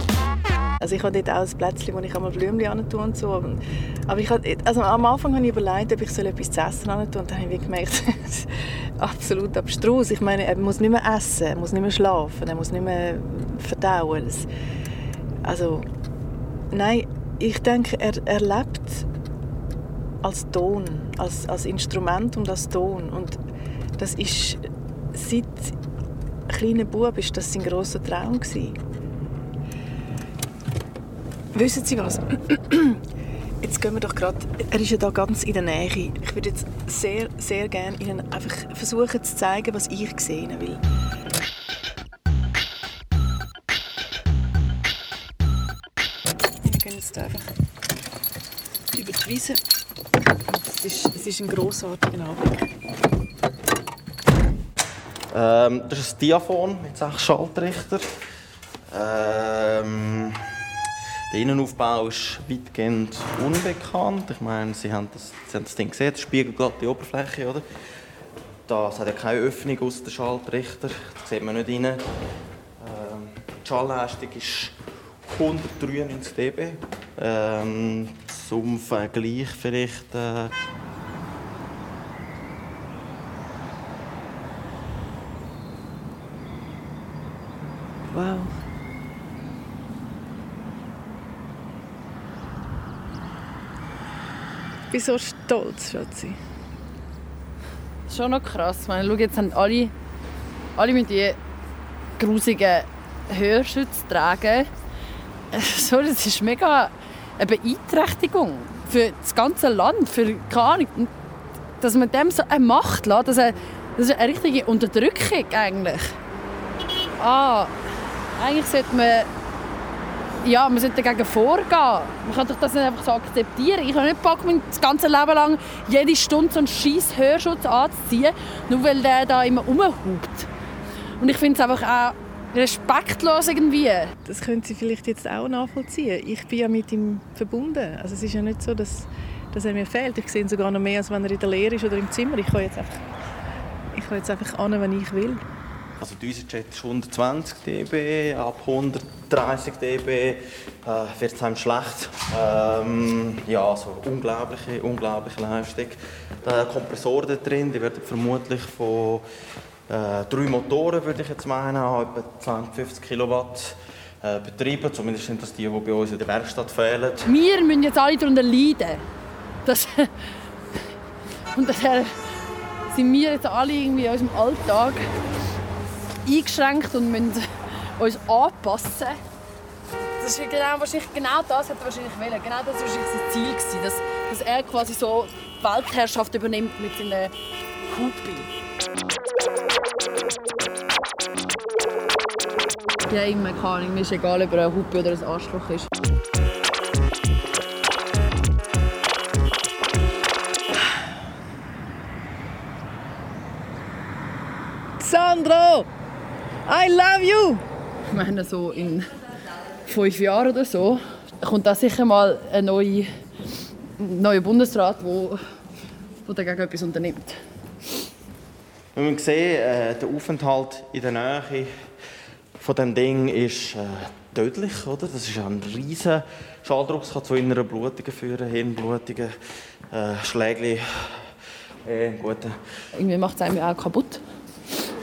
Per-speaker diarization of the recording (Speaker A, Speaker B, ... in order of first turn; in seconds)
Speaker A: 0.8-14.5, 15.4-15.9, 16.7-19.1, 20.2-23.4, 24.0-25.8, 26.5-28.8, 31.5-33.0, 33.6-40.8, 46.6-47.5, 48.9-49.6, 50.5-52.7, 88.1-88.5, 94.9-96.4, 134.2-143.1, 143.9-145.4, 205.0-205.9, 206.7-207.7
Speaker B: 55.3-58.1, 58.9-60.5, 61.3-67.7, 68.7-72.0, 72.8-74.8, 75.3-80.5, 146.0-159.2, 159.9-167.3, 218.9-221.7, 222.6-229.4, 229.9-231.3, 231.8-232.6
Speaker C: 98.1-99.9, 100.8-101.4, 102.2-104.7, 105.5-111.1, 111.8-116.2, 117.2-117.7, 118.4-119.3, 120.4-130.5, 131.2-134.1, 167.2-169.1, 169.7-170.3, 171.5-172.2, 172.9-175.1, 176.2-177.5, 178.0-179.2, 180.2-187.3, 187.9-188.5, 193.1-195.9, 208.1-209.1, 209.9-213.1, 214.0-215.4, 216.2-217.4, 232.9-234.2